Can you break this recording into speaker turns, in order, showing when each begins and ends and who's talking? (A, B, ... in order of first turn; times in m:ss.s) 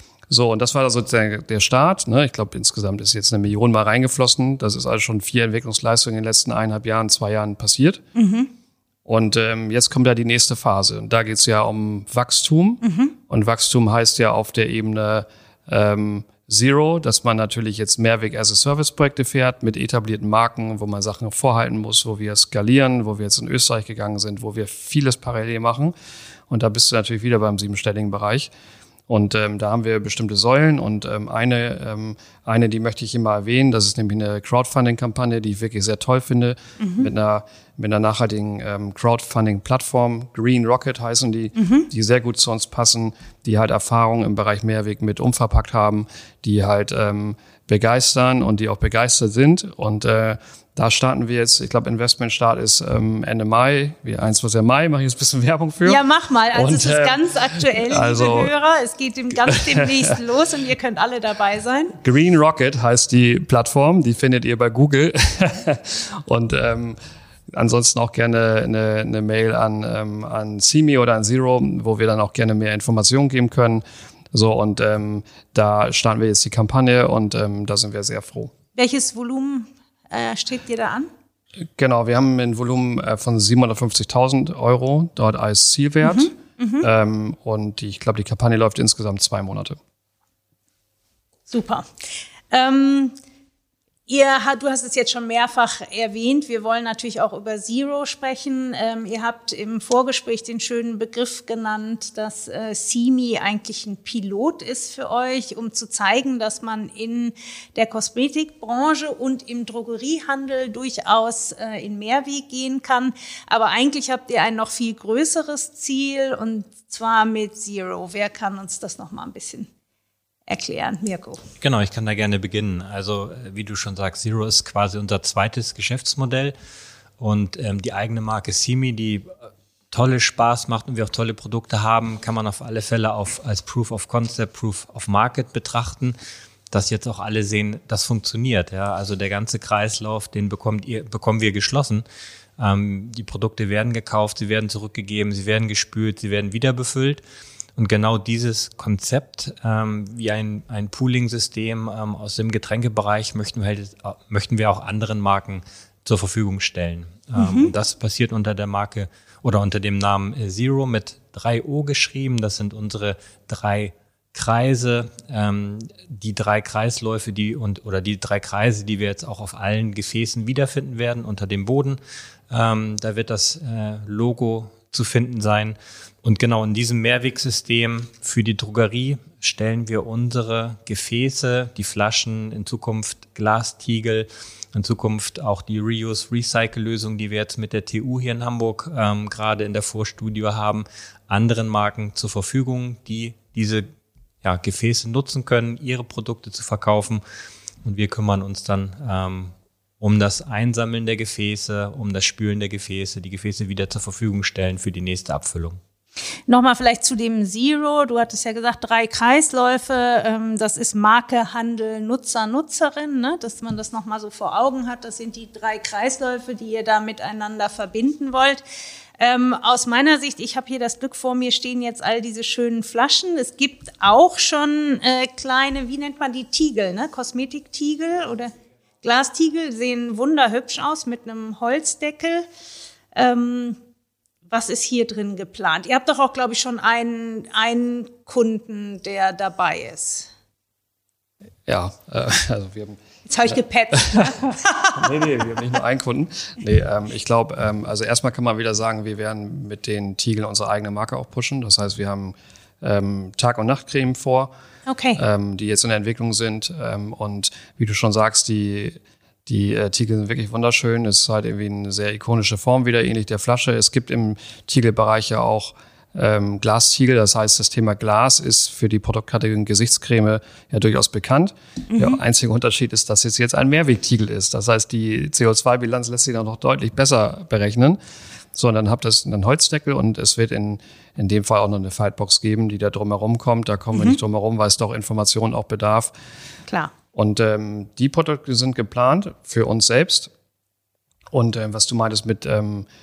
0:00.3-0:08.0 A
0:08.2-0:08.5 B
0:09.0-0:25.9 A
0:12.8-0:13.2 B
0:26.5-0:28.5 A
0:29.1-0:56.0 A
0:36.8-0:37.1 B
0:41.6-0:41.9 B
0:55.8-1:02.0 B
0:56.5-0:58.5 A
0:59.5-0:59.9 A
1:02.0-1:07.0 A
1:07.5-1:18.5 A
1:18.8-1:21.1 B
1:21.8-1:29.8 A
1:26.0-1:26.9 B
1:31.5-1:31.9 B
1:32.5-1:33.2 B
1:34.1-1:59.7 B
2:00.5-2:01.4 B
2:01.6-2:06.6 C
2:07.2-2:09.3 C
2:09.9-2:16.2 C
2:16.7-2:22.0 C
2:22.6-2:27.2 C
2:27.8-2:52.0 C
2:37.4-2:37.7 B
2:52.5-3:13.9 C
3:14.4-3:17.2 C
3:17.8-3:25.8 C
3:26.5-3:38.6 B
3:39.2-3:52.5 B
3:53.1-3:53.8 B
3:54.5-4:00.3 B
4:01.7-4:03.6 A
4:03.3-4:05.2 B
4:05.0-4:14.5 A
4:14.9-4:15.2 B
4:15.2-4:38.0 A
4:31.9-4:32.2 B
4:38.5-4:46.1 A
4:46.7-4:46.9 B
4:47.1-4:50.3 A
4:51.3-4:52.9 A